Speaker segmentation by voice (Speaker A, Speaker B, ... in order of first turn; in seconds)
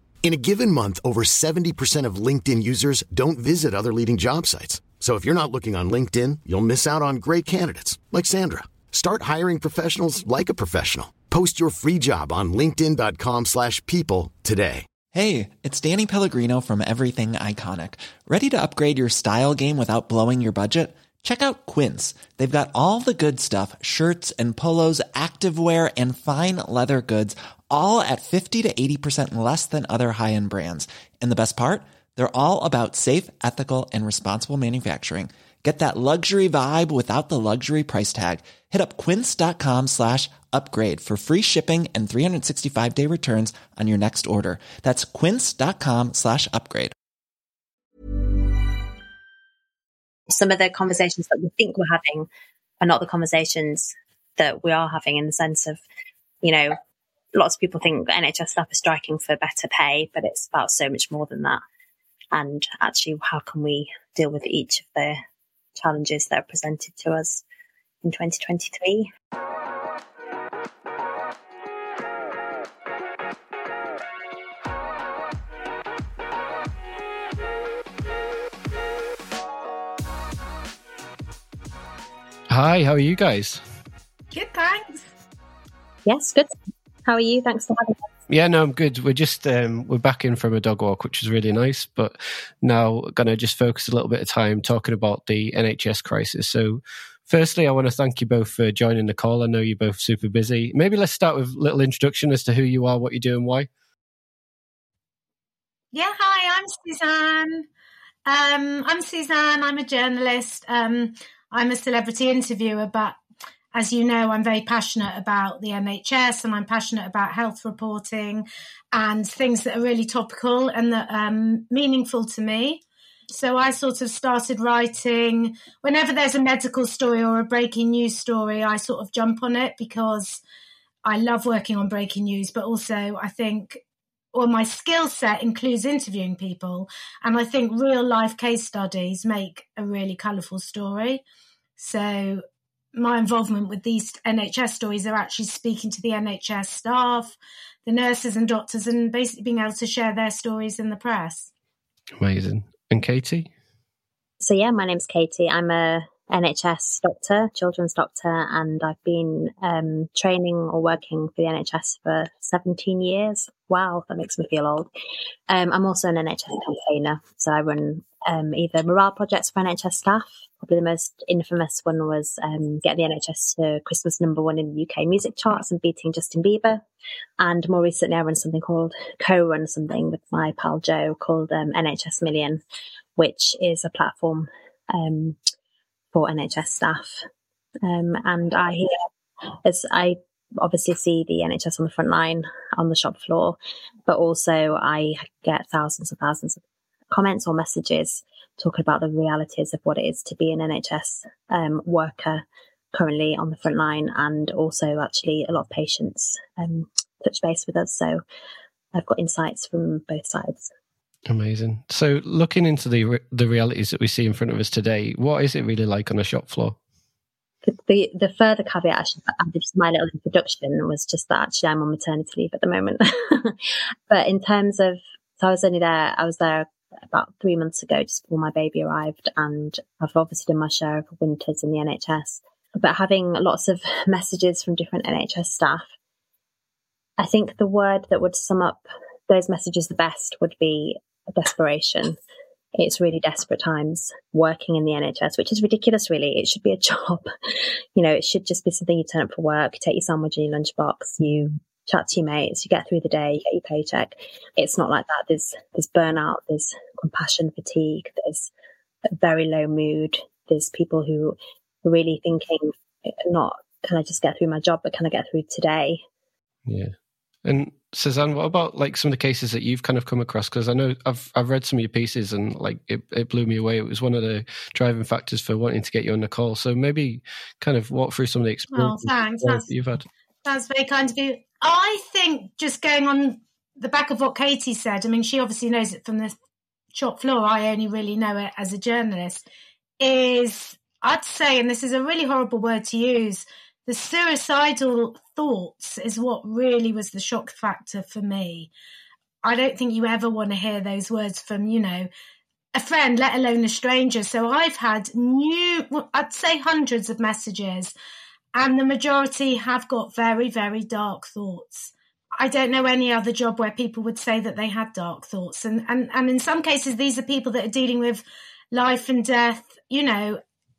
Speaker A: 0.2-14.8
Speaker B: 15.1-46.9
Speaker C: 50.3-52.3, 52.8-55.8, 56.4-56.8, 57.3-61.6, 62.3-65.2, 65.8-67.4, 68.0-69.1, 86.0-86.5, 87.0-88.0, 154.4-164.9, 165.5-176.8, 177.4-182.6, 183.2-185.4, 186.1-187.2, 187.8-189.0, 189.5-208.2, 208.9-210.7, 217.6-235.9, 237.2-242.2, 242.7-247.3, 247.9-258.5, 259.1-266.0
Speaker D: 82.5-83.6, 88.3-103.7, 152.2-153.5, 211.3-216.8, 266.7-266.9, 267.4-280.1
Speaker E: 84.3-85.1, 105.9-107.7, 108.2-113.2, 113.7-130.4, 131.0-133.8, 134.3-141.2, 141.8-151.5, 278.7-279.7, 280.4-286.3, 286.9-289.4, 290.0-298.7, 299.4-302.1, 302.7-307.9, 308.5-320.4